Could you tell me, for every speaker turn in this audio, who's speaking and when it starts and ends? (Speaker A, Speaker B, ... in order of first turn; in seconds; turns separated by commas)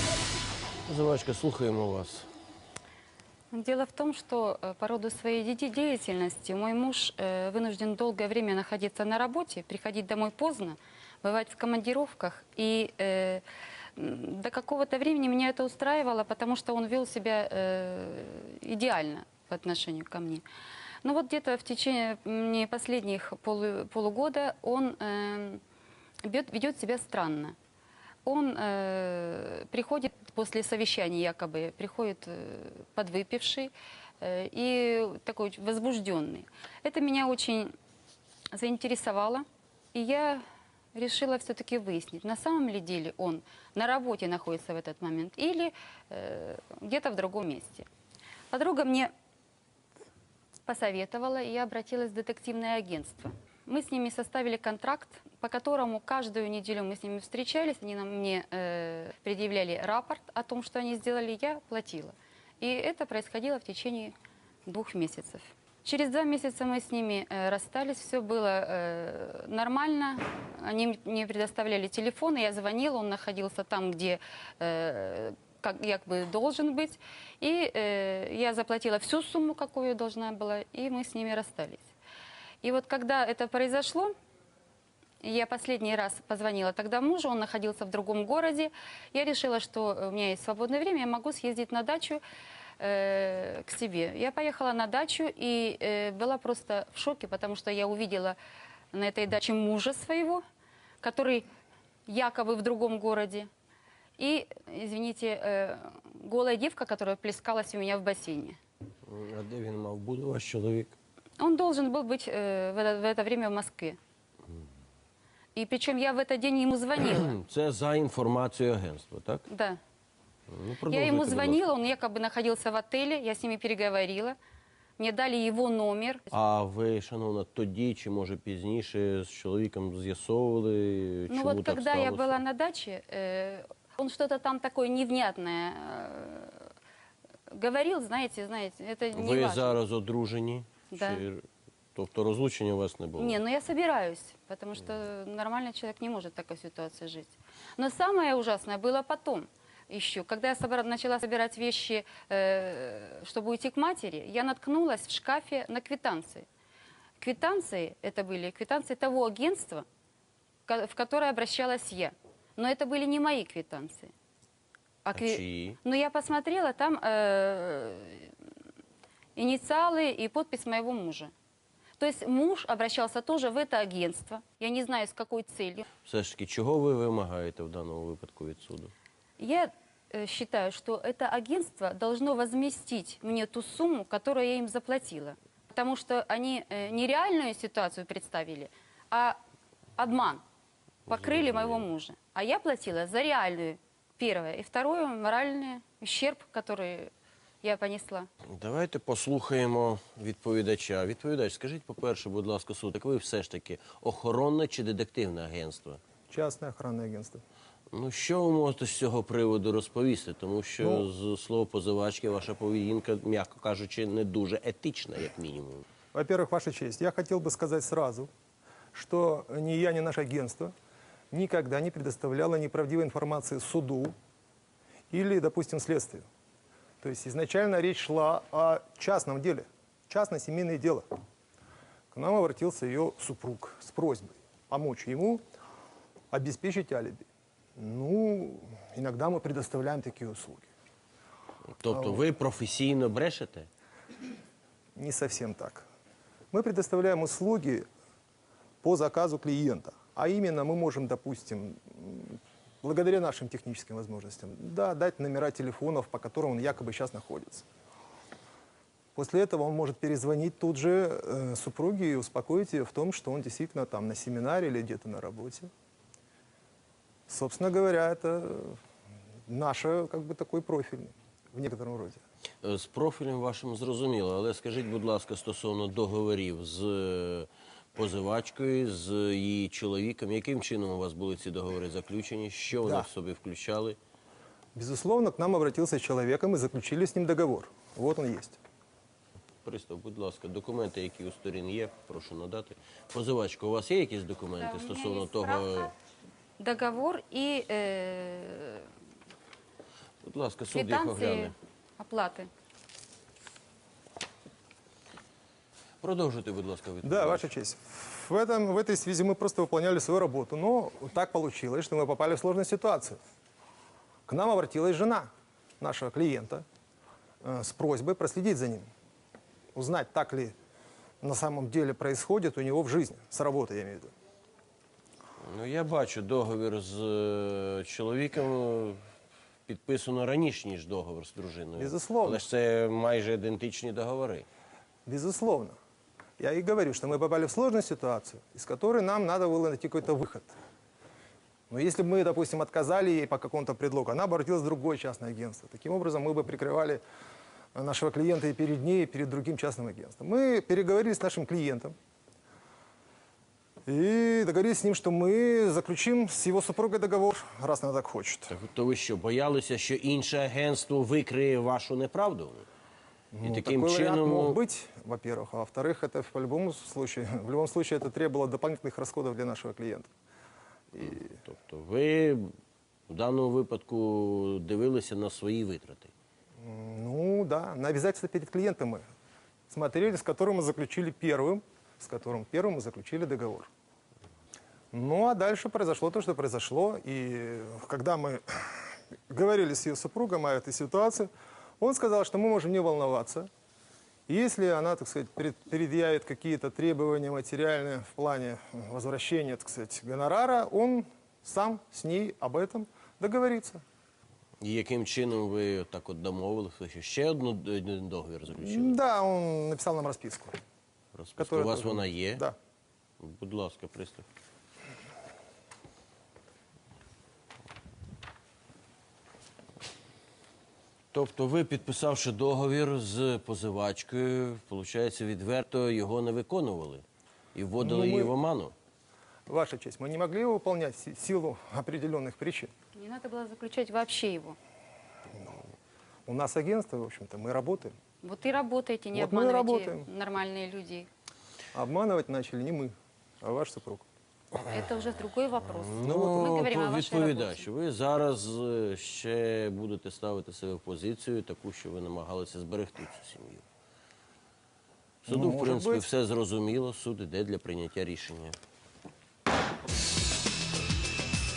Speaker A: 0.9-2.3, Speaker B: 3.5-13.4, Speaker B: 13.9-20.4, Speaker B: 21.0-25.6, Speaker B: 26.2-27.5, Speaker B: 28.2-37.7, Speaker B: 38.5-40.4, Speaker B: 40.9-47.9, Speaker B: 48.5-49.1, Speaker B: 50.6-64.1, Speaker B: 64.7-81.8, Speaker B: 82.6-84.1, Speaker B: 85.2-92.2, Speaker B: 92.8-98.4, Speaker B: 98.9-100.4, Speaker B: 101.0-101.5, Speaker B: 102.0-103.5, Speaker B: 104.2-108.6, Speaker A: 109.1-111.0, Speaker B: 111.4-114.0, Speaker B: 115.5-117.3, Speaker A: 117.2-119.4, Speaker B: 119.5-119.8, Speaker A: 120.5-121.6, Speaker B: 120.9-124.3, Speaker B: 125.0-126.3, Speaker A: 126.3-132.4, Speaker B: 131.3-136.7, Speaker B: 137.5-139.8, Speaker A: 139.1-141.4, Speaker B: 140.9-141.2, Speaker A: 141.9-143.4, Speaker B: 143.2-156.5, Speaker B: 157.2-159.8, Speaker B: 160.7-164.1, Speaker B: 165.1-168.3, Speaker A: 165.1-165.8, Speaker B: 169.3-171.3, Speaker B: 172.0-175.8, Speaker A: 176.0-178.9, Speaker B: 179.4-189.4, Speaker B: 190.0-190.4, Speaker B: 191.1-197.1, Speaker A: 191.1-191.9, Speaker B: 197.6-198.3, Speaker A: 198.5-206.0, Speaker C: 206.3-207.4, Speaker A: 207.9-215.8, Speaker C: 210.8-211.1, Speaker C: 216.1-218.3, Speaker C: 218.9-220.7, Speaker C: 221.3-224.1, Speaker C: 225.1-226.2, Speaker C: 227.0-231.1, Speaker C: 232.1-235.4, Speaker C: 236.3-237.2, Speaker C: 237.8-240.7, Speaker A: 241.8-243.7, Speaker C: 241.9-242.2, Speaker C: 244.9-245.8, Speaker C: 246.5-247.8, Speaker C: 248.8-257.7, Speaker C: 259.1-265.7, Speaker C: 267.3-268.8, Speaker C: 269.5-272.2, Speaker A: 272.6-284.0, Speaker C: 282.8-283.1, Speaker C: 284.7-288.6, Speaker A: 289.6-295.9, Speaker B: 294.6-295.9, Speaker B: 296.6-298.9, Speaker A: 300.2-301.5, Speaker B: 300.7-302.5, Speaker A: 306.0-307.5, Speaker C: 307.0-313.2, Speaker C: 314.3-315.3, Speaker C: 315.8-316.6, Speaker C: 317.4-318.9, Speaker C: 319.7-320.5, Speaker C: 321.2-324.1, Speaker A: 325.4-329.0, Speaker A: 329.7-334.4, Speaker C: 331.8-332.4, Speaker C: 335.1-335.8, Speaker C: 336.4-340.5, Speaker C: 341.7-347.0, Speaker C: 347.7-351.9, Speaker C: 353.9-358.5, Speaker A: 358.5-362.6, Speaker C: 363.3-370.1, Speaker A: 363.4-364.6, Speaker C: 370.9-371.4, Speaker A: 371.0-372.5, Speaker A: 373.1-376.1, Speaker C: 376.6-379.0, Speaker C: 379.7-383.7, Speaker C: 384.9-391.3, Speaker C: 391.8-393.5, Speaker C: 394.3-403.8, Speaker A: 404.6-409.0, Speaker C: 408.6-410.6, Speaker A: 411.1-412.4, Speaker C: 411.4-412.6, Speaker A: 413.2-414.2, Speaker A: 421.1-428.7, Speaker C: 427.8-428.3, Speaker C: 429.5-432.7, Speaker B: 432.9-434.6, Speaker C: 436.3-437.9, Speaker B: 438.2-441.1, Speaker C: 439.1-440.1, Speaker C: 441.7-444.1, Speaker B: 444.6-447.6, Speaker A: 445.7-453.6, Speaker C: 446.0-446.6, Speaker A: 455.2-458.6, Speaker C: 455.3-456.0